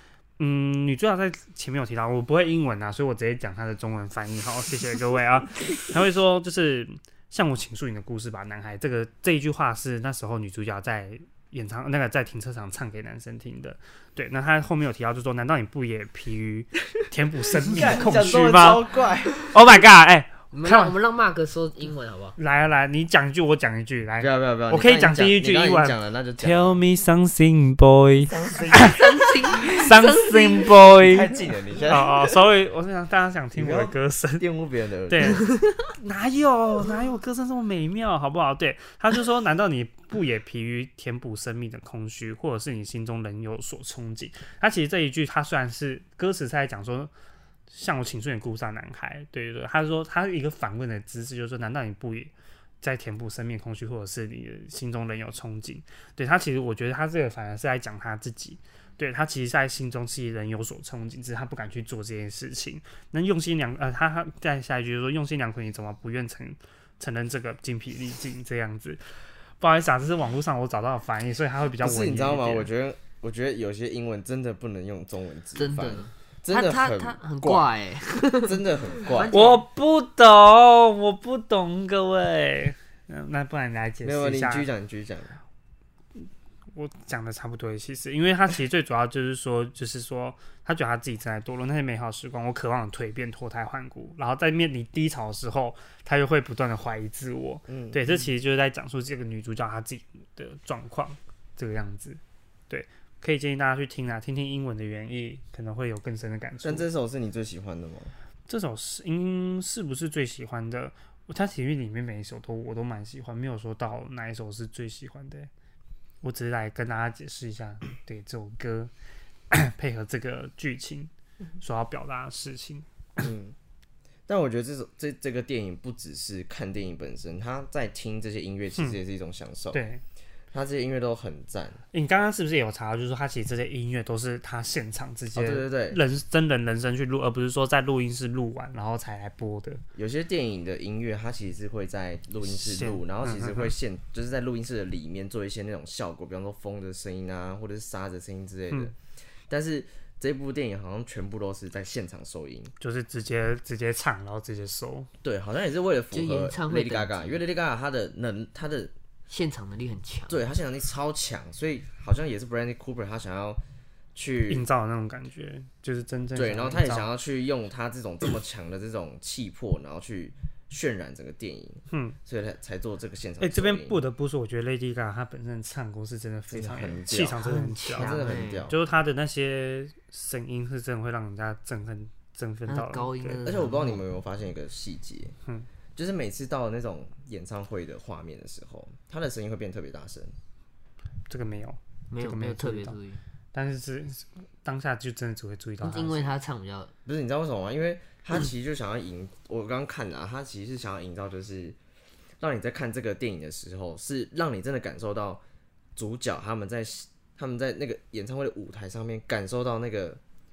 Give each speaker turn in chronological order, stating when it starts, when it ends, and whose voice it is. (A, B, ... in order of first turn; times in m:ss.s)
0:00.4-0:18.8 A
0:17.6-0:19.4 B
0:19.4-0:21.0 A
0:20.5-0:22.4 C
0:22.4-0:31.3 A
0:24.2-0:26.8 B
0:28.2-0:29.3 B
0:28.7-0:30.9 C
0:31.0-0:32.3 B
0:31.9-0:34.5 A
0:33.5-0:35.4 B
0:35.1-0:47.1 A
0:47.7-1:12.7 A
1:11.8-1:17.7 B
1:15.6-1:19.6 C
1:18.4-1:19.3 B
1:19.3-1:24.7 A
1:24.0-1:25.4 B
1:26.2-1:46.8 A
1:37.7-1:38.2 B
1:46.6-1:48.1 B
1:48.5-1:55.5 A
1:56.2-1:58.9 A
1:59.5-2:02.9 A
2:03.2-2:03.6 B
2:04.3-2:09.8 B
2:09.7-2:10.0 A
2:10.5-2:11.8 B
2:11.9-2:19.8 A
2:15.3-2:16.0 B
2:20.0-2:29.0 B
2:22.5-2:23.7 A
2:29.5-2:32.7 B
2:32.8-2:35.1 A
2:35.2-2:38.9 B
2:36.1-2:37.4 C
2:39.3-2:40.4 C
2:40.3-2:43.6 B
2:44.2-2:44.7 B
2:44.5-2:47.1 A
2:46.4-2:54.0 B
2:51.9-2:52.2 A
2:53.4-3:03.4 A
2:56.5-2:57.4 B
2:57.4-2:58.7 C
2:58.0-2:58.8 B
3:02.7-3:04.0 C
3:03.4-3:05.4 B
3:06.0-3:10.4 B
3:11.3-3:13.0 A
3:12.1-3:13.2 C
3:13.5-3:16.3 A
3:15.8-3:16.9 C
3:17.1-3:21.8 B
3:22.4-3:25.4 B
3:26.0-3:30.2 B